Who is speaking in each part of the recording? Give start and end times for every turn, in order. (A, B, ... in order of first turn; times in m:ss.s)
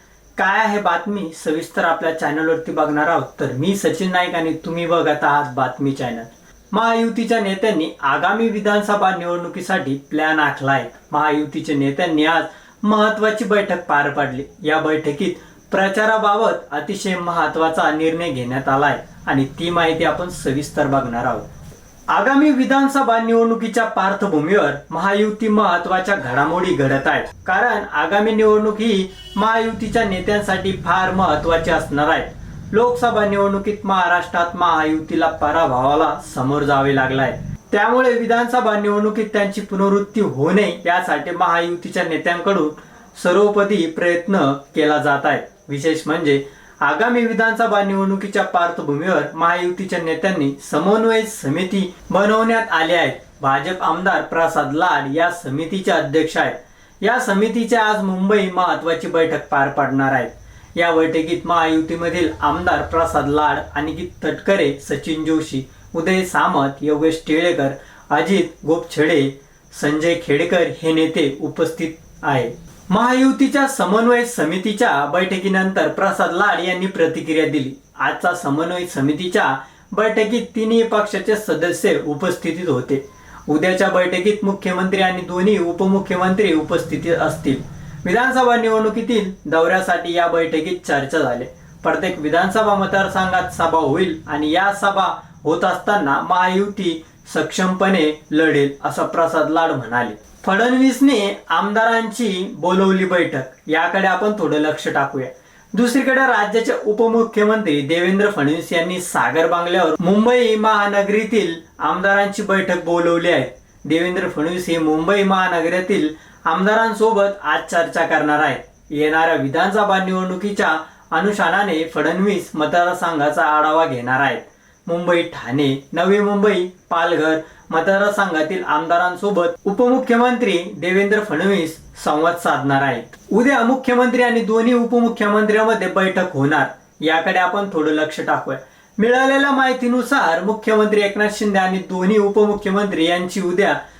0:00.4-0:21.5 A
0:22.1-2:23.8 A